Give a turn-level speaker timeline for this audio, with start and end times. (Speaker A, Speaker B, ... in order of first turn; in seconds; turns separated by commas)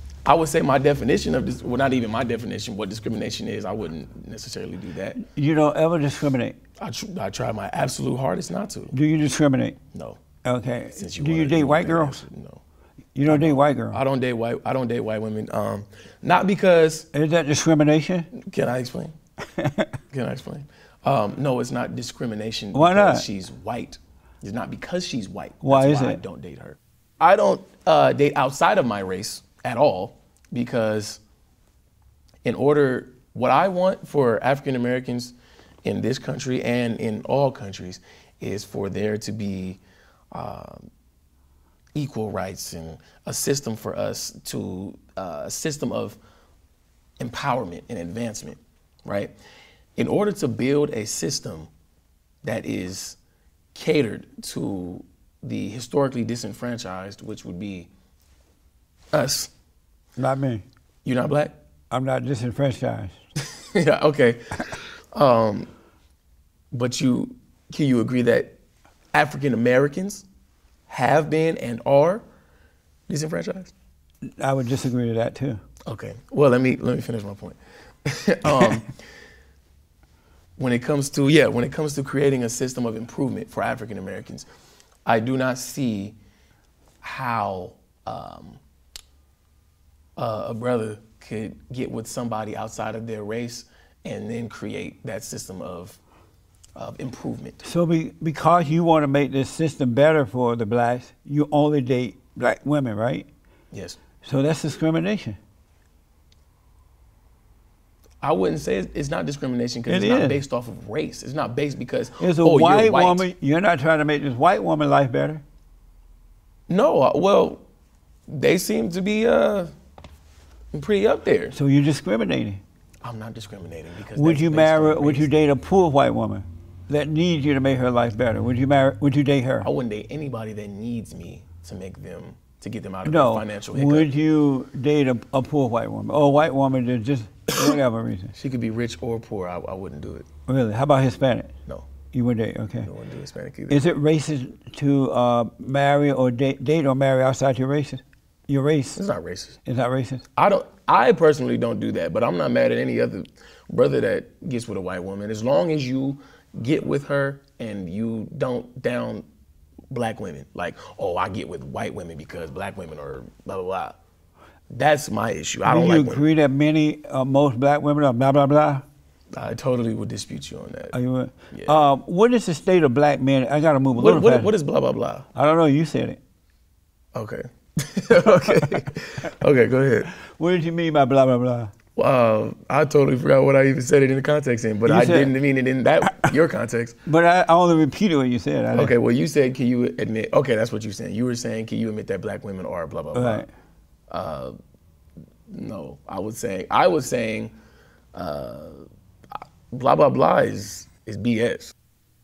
Speaker A: 0.2-5.2, Speaker B: 5.2-6.6, Speaker A: 6.8-8.9, Speaker B: 8.9-9.8, Speaker A: 9.9-10.2, Speaker B: 10.4-12.2, Speaker A: 10.9-12.6, Speaker B: 13.1-14.0, Speaker A: 13.2-17.1, Speaker B: 17.1-18.3, Speaker A: 18.3-19.1, Speaker B: 19.6-19.9, Speaker A: 20.1-31.2, Speaker B: 22.7-23.2, Speaker B: 25.6-26.2, Speaker A: 32.4-40.9, Speaker A: 41.9-46.2, Speaker A: 47.2-49.3, Speaker A: 50.0-51.7, Speaker A: 52.4-53.2, Speaker A: 53.8-57.9, Speaker A: 59.1-59.5, Speaker B: 60.2-60.6, Speaker A: 61.0-61.6, Speaker B: 61.9-63.2, Speaker A: 63.8-65.7, Speaker A: 66.7-68.5, Speaker A: 69.1-70.2, Speaker A: 70.9-72.2, Speaker A: 73.1-73.7, Speaker B: 74.4-75.6, Speaker A: 75.9-78.9, Speaker A: 80.6-84.5, Speaker A: 85.0-86.2, Speaker A: 87.0-88.6, Speaker A: 90.2-96.0, Speaker A: 96.8-97.6, Speaker B: 97.6-103.3, Speaker A: 103.7-104.0, Speaker B: 104.2-105.4, Speaker A: 108.2-113.2, Speaker B: 109.9-110.4, Speaker B: 112.2-115.4, Speaker A: 116.7-117.6, Speaker A: 118.3-119.7, Speaker A: 120.7-121.5, Speaker B: 121.5-122.6, Speaker A: 123.0-125.3, Speaker B: 124.2-129.7, Speaker A: 129.6-134.1, Speaker B: 133.0-138.3, Speaker A: 138.3-140.3, Speaker B: 140.5-141.5, Speaker B: 142.1-142.9, Speaker A: 142.8-143.8, Speaker B: 143.7-149.0, Speaker A: 148.9-149.6, Speaker B: 149.6-150.2, Speaker A: 150.3-159.3, Speaker A: 159.9-164.0, Speaker A: 164.7-166.2, Speaker B: 165.6-168.8, Speaker A: 169.3-170.9, Speaker B: 170.9-174.5, Speaker A: 171.5-171.8, Speaker A: 173.9-175.3, Speaker B: 175.3-176.2, Speaker A: 177.1-180.1, Speaker B: 180.2-181.7, Speaker A: 181.9-187.0, Speaker B: 184.8-185.3, Speaker B: 187.1-188.9, Speaker A: 188.7-193.4, Speaker B: 193.1-193.5, Speaker A: 194.1-194.5, Speaker A: 195.5-197.5, Speaker A: 198.1-198.8, Speaker A: 199.7-201.7